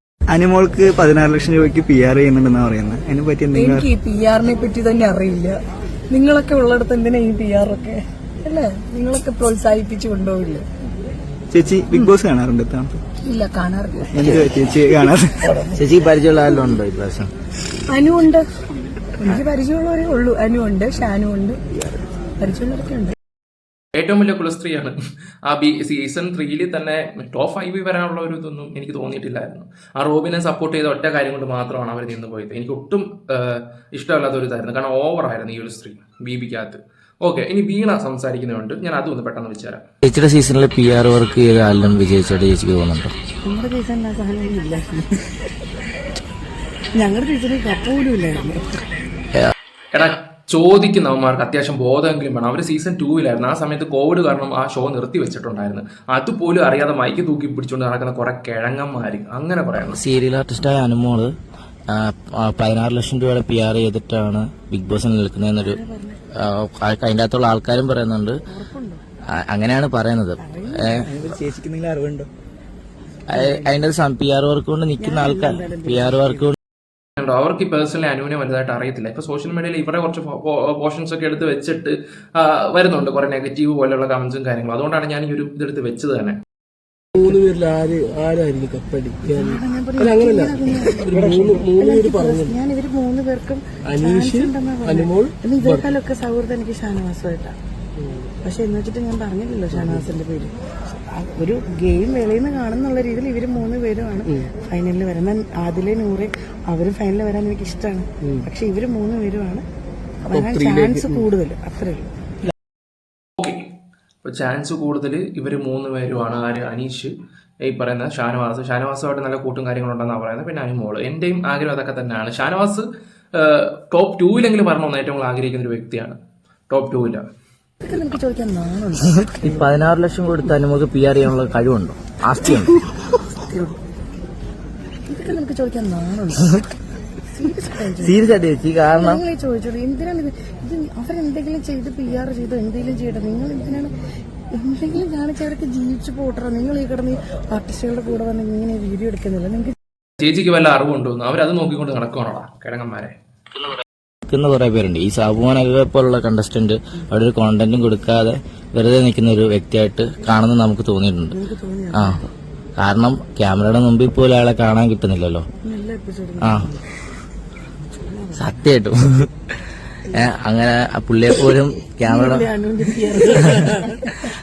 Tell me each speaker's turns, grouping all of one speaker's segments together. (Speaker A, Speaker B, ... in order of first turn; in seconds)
Speaker A: 0.3-3.9, 11.5-13.0, 14.1-15.4, 70.9-72.3
Speaker B: 3.5-5.6, 6.1-10.6, 13.2-14.4, 17.9-18.4, 19.2-21.6, 22.4-23.1, 43.4-45.2, 47.0-48.8, 65.6-66.2, 68.5-69.0, 70.4-71.0, 73.3-73.7, 75.0-76.5, 89.2-97.5, 98.4-109.6, 110.2-112.1, 127.8-129.7, 132.5-132.7, 133.4-133.8, 135.1-136.6, 137.3-138.3, 138.9-143.9, 144.5-149.7, 161.3-162.2, 165.6-166.8, 168.0-168.6, 170.1-170.3, 171.3-174.1
Speaker C: 15.7-17.3, 40.0-43.1, 59.9-61.3, 61.9-65.8, 66.4-68.3, 69.4-71.0, 73.3-76.5, 129.4-132.7, 138.0-139.2, 154.2-161.3, 162.8-165.4, 168.4-169.2, 170.1-172.4
Speaker D: 23.9-39.8, 49.9-60.0, 77.2-86.4, 113.4-113.6, 114.2-117.1, 117.6-126.2, 126.7-127.2, 150.2-153.1
Speaker E: 87.2-92.5, 93.8-95.8, 99.7-100.1, 110.3-111.2